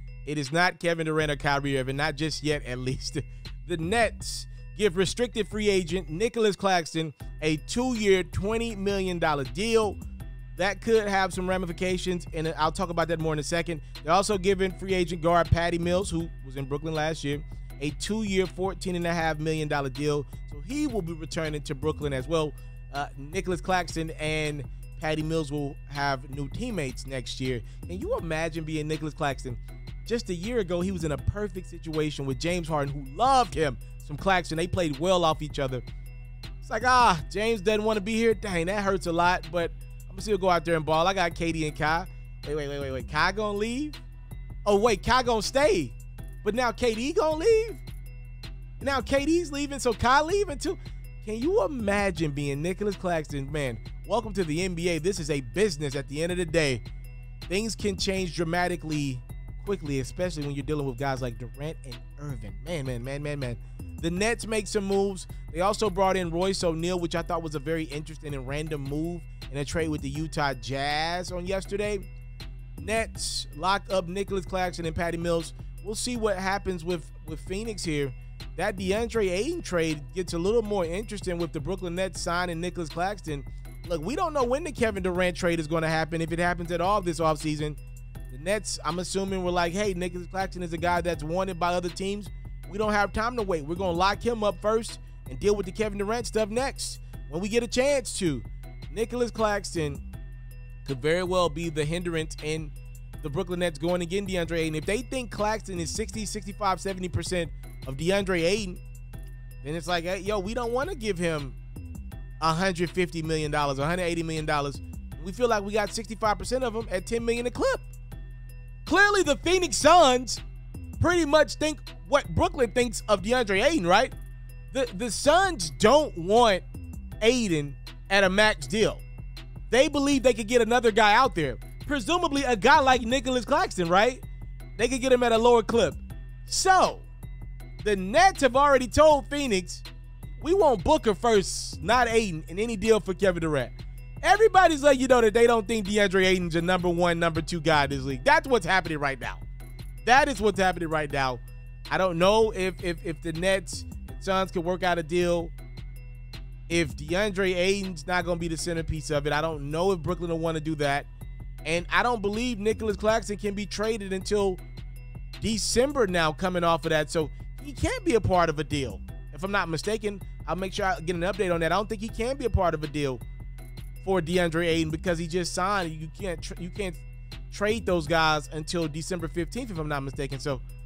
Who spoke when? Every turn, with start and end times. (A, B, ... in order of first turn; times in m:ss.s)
0:00.2-0:10.0 A
0:10.6-0:35.8 A
0:36.6-0:44.0 A
0:44.6-0:47.8 A
0:48.8-0:56.8 A
0:57.5-1:12.0 A
1:12.8-1:40.0 A
1:40.8-1:48.8 A
1:49.6-1:51.6 A
1:52.4-1:57.9 A
1:58.8-2:00.4 A
2:01.0-2:04.1 A
2:04.7-2:06.6 A
2:07.2-2:09.0 A
2:09.7-2:14.2 A
2:14.8-2:17.1 A
2:17.8-2:19.8 A
2:20.4-2:29.4 A
2:30.0-2:35.5 A
2:36.7-2:41.1 A
2:41.6-2:44.6 A
2:45.4-2:53.2 A
2:54.0-3:00.6 A